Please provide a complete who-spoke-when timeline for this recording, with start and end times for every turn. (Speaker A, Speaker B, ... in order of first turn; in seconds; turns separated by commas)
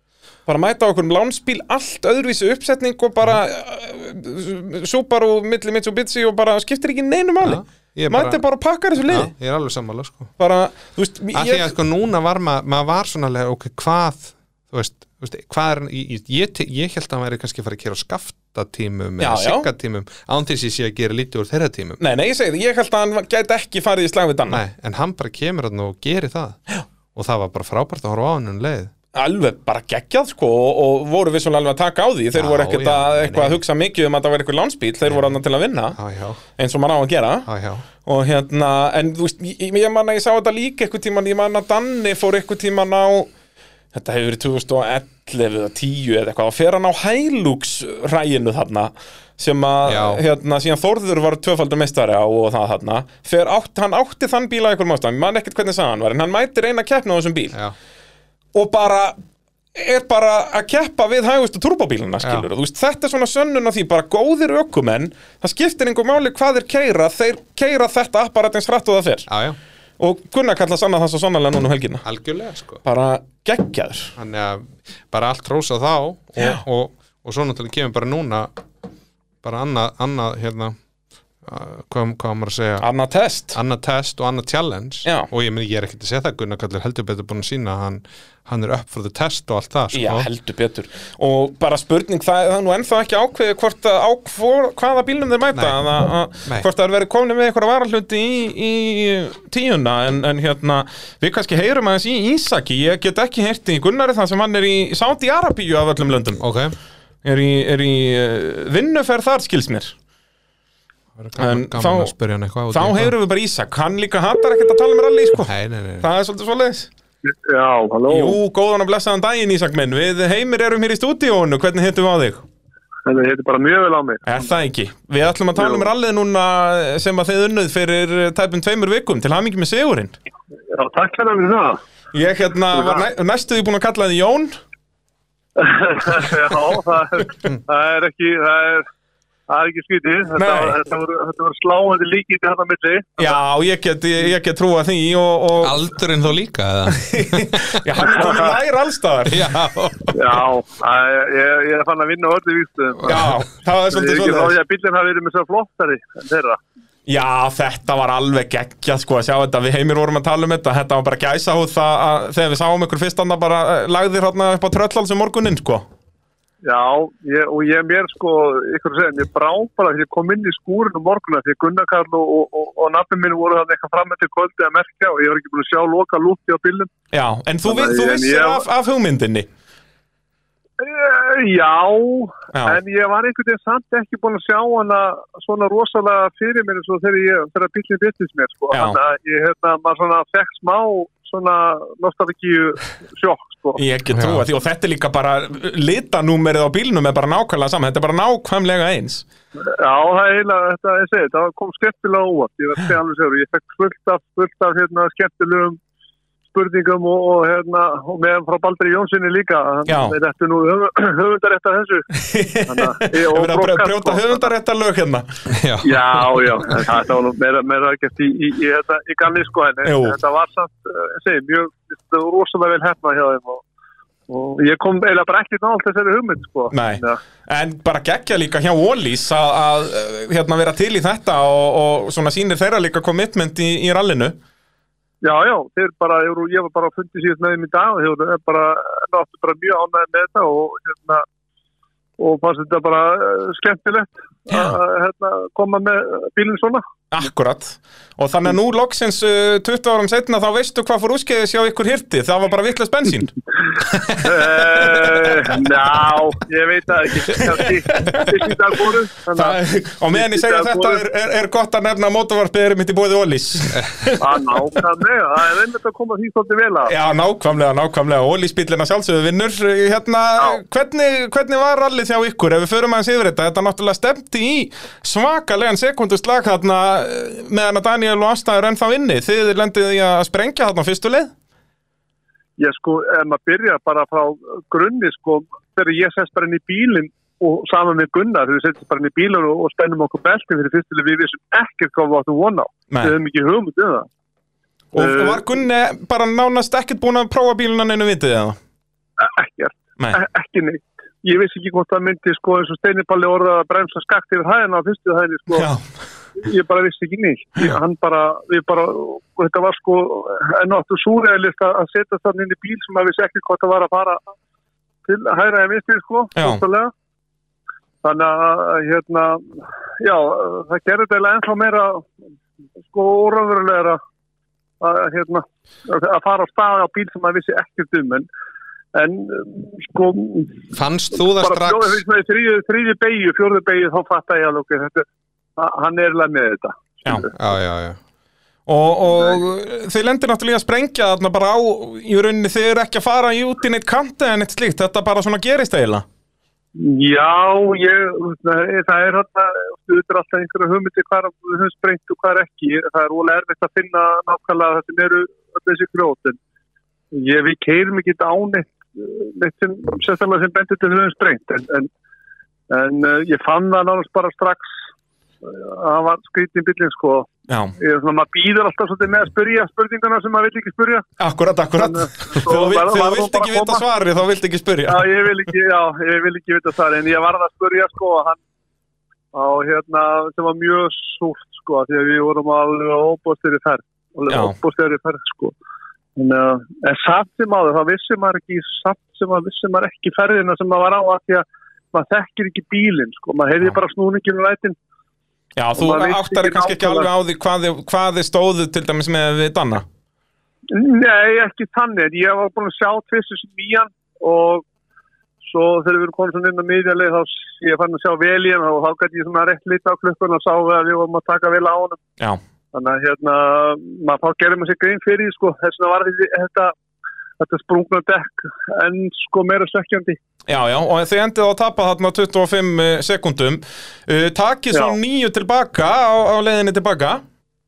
Speaker A: 0.5-9.3, Speaker B: 7.4-8.4, Speaker B: 9.0-10.3, Speaker A: 10.4-11.7, Speaker B: 11.3-22.0, Speaker A: 19.2-19.7, Speaker A: 22.0-24.6, Speaker B: 24.5-26.6, Speaker B: 27.1-28.9, Speaker A: 29.1-36.0, Speaker B: 32.3-33.6, Speaker B: 35.1-35.3, Speaker B: 35.9-36.4, Speaker A: 36.6-37.5, Speaker B: 37.5-37.8, Speaker A: 38.0-43.3, Speaker A: 43.9-57.6, Speaker B: 49.9-50.2, Speaker A: 58.5-59.2, Speaker A: 59.7-69.3, Speaker B: 69.3-69.6, Speaker A: 70.0-72.0, Speaker B: 72.0-72.8, Speaker A: 72.8-74.1, Speaker B: 74.2-78.5, Speaker A: 76.4-76.6, Speaker B: 79.4-80.8, Speaker B: 81.4-82.9, Speaker A: 82.8-83.5, Speaker B: 83.5-90.3, Speaker A: 89.9-106.4, Speaker B: 95.5-95.9, Speaker B: 106.4-106.7, Speaker A: 107.2-109.9, Speaker B: 111.2-113.1, Speaker A: 111.4-112.1, Speaker A: 112.7-116.9, Speaker B: 115.5-116.1, Speaker C: 117.2-118.4, Speaker A: 118.1-122.4, Speaker C: 123.0-124.2, Speaker A: 124.2-130.2, Speaker C: 125.6-125.8, Speaker C: 130.7-131.8, Speaker A: 132.1-134.6, Speaker C: 132.7-133.0, Speaker C: 135.6-138.9, Speaker C: 139.5-143.4, Speaker A: 140.3-140.8, Speaker A: 143.2-145.8, Speaker B: 145.6-148.1, Speaker A: 146.9-149.4, Speaker C: 148.0-148.5, Speaker B: 149.3-150.4, Speaker C: 150.1-153.2, Speaker A: 153.1-154.5, Speaker C: 153.9-156.6, Speaker A: 157.1-165.8, Speaker C: 166.6-176.9, Speaker A: 177.1-179.5, Speaker C: 177.7-178.6, Speaker C: 180.8-193.8, Speaker A: 182.5-182.8, Speaker A: 188.7-189.0, Speaker A: 193.8-199.2, Speaker B: 194.1-194.4, Speaker C: 199.6-205.8, Speaker C: 206.5-212.1, Speaker A: 209.8-210.2, Speaker A: 212.1-215.2, Speaker C: 212.7-214.5, Speaker B: 215.5-216.8, Speaker C: 215.8-223.6, Speaker A: 219.8-220.2, Speaker C: 224.3-227.2, Speaker A: 226.7-234.3, Speaker C: 235.2-241.2, Speaker C: 242.2-246.8, Speaker A: 247.1-253.3, Speaker A: 253.8-255.5, Speaker C: 254.1-259.6, Speaker A: 257.3-258.7, Speaker A: 259.4-264.8, Speaker C: 260.1-261.0, Speaker C: 264.2-266.9, Speaker A: 266.9-281.3, Speaker C: 282.6-294.1, Speaker A: 294.9-298.6, Speaker C: 294.9-295.6, Speaker C: 299.2-305.7, Speaker A: 305.5-305.9, Speaker C: 306.4-314.2, Speaker C: 315.0-316.9, Speaker A: 316.4-316.6, Speaker C: 318.0-322.1, Speaker C: 322.9-324.0, Speaker C: 324.8-328.3, Speaker C: 328.9-330.7, Speaker B: 330.7-332.0, Speaker C: 331.3-335.0, Speaker C: 335.6-337.4, Speaker B: 337.3-338.0, Speaker A: 338.7-346.0, Speaker C: 346.8-356.4, Speaker C: 357.1-361.9, Speaker C: 362.7-364.8, Speaker C: 365.4-371.1, Speaker A: 367.5-367.8, Speaker A: 371.2-375.3, Speaker C: 371.8-373.8, Speaker C: 374.9-378.4, Speaker C: 379.3-385.5, Speaker A: 384.3-384.5, Speaker C: 386.1-394.8, Speaker A: 395.6-399.8, Speaker C: 395.8-397.1, Speaker C: 400.7-404.6, Speaker C: 405.4-412.0, Speaker C: 412.7-416.7, Speaker C: 417.4-420.2, Speaker A: 420.5-427.2, Speaker C: 424.7-425.0